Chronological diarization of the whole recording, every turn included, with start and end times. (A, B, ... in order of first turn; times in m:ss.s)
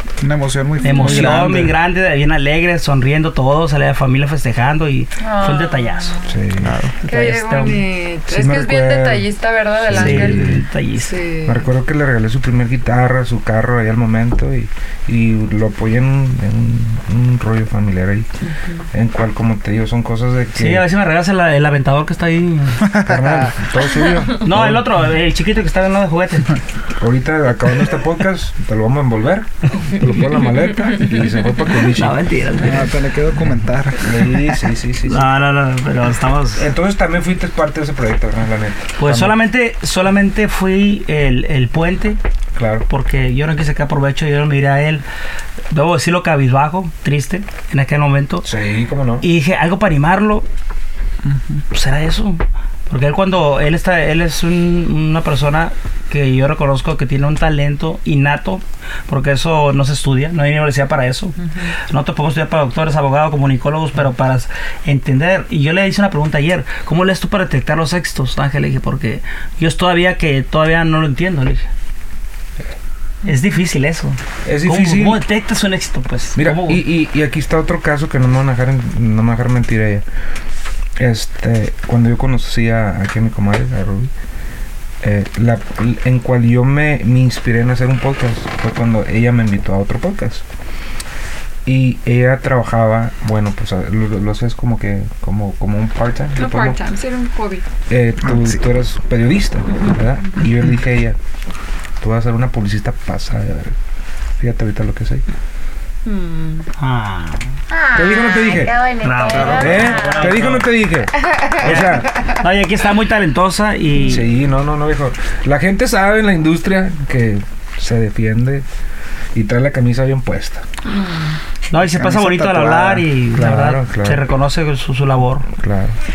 0:00.2-0:01.4 A
0:00.8-0:01.2 B
0:00.8-0:06.2 C
0:01.0-0:01.8 D
0:05.2-0:06.3 B
0:06.2-0:06.8 D
0:06.6-0:06.9 A
0:07.0-0:07.8 C
0:07.0-0:11.7 B
0:08.3-0:10.6 D
0:09.9-0:11.2 C
0:11.4-0:18.3 D
0:18.5-0:18.8 B
0:18.9-0:20.9 D
0:20.6-0:22.9 C
0:22.8-0:23.6 A
0:23.0-0:24.9 D
0:24.4-0:26.6 C
0:27.0-0:32.2 D
0:31.8-0:33.0 C
0:32.6-0:34.4 A
0:34.0-0:35.3 D
0:35.0-0:36.7 C
0:36.6-0:39.4 D
0:39.0-0:42.2 C
0:42.6-0:42.9 D
0:42.9-0:45.0 C
0:45.7-0:48.5 C
0:48.4-0:49.2 D
0:49.2-0:50.5 C
0:51.7-1:11.7 C
1:13.2-1:16.8 C
1:14.4-1:15.2 D
1:16.4-1:20.0 D
1:21.0-1:24.1 D
1:25.0-1:30.4 D
1:31.7-1:36.8 D
1:36.4-1:37.6 B
1:37.9-1:41.2 D
1:38.2-1:38.6 A
1:42.0-1:43.8 D
1:44.4-1:45.2 D
1:46.0-1:46.7 B
1:46.8-1:47.6 C
1:47.7-1:50.5 B
1:47.9-1:52.1 D
1:49.0-1:50.7 C
1:51.3-1:51.9 B
1:51.6-1:54.3 C
1:54.1-1:58.7 D
1:59.3-2:00.6 D
2:00.9-2:01.4 B
2:01.7-2:05.5 C
2:01.8-2:03.1 A
2:03.4-2:04.2 D
2:05.5-2:06.0 D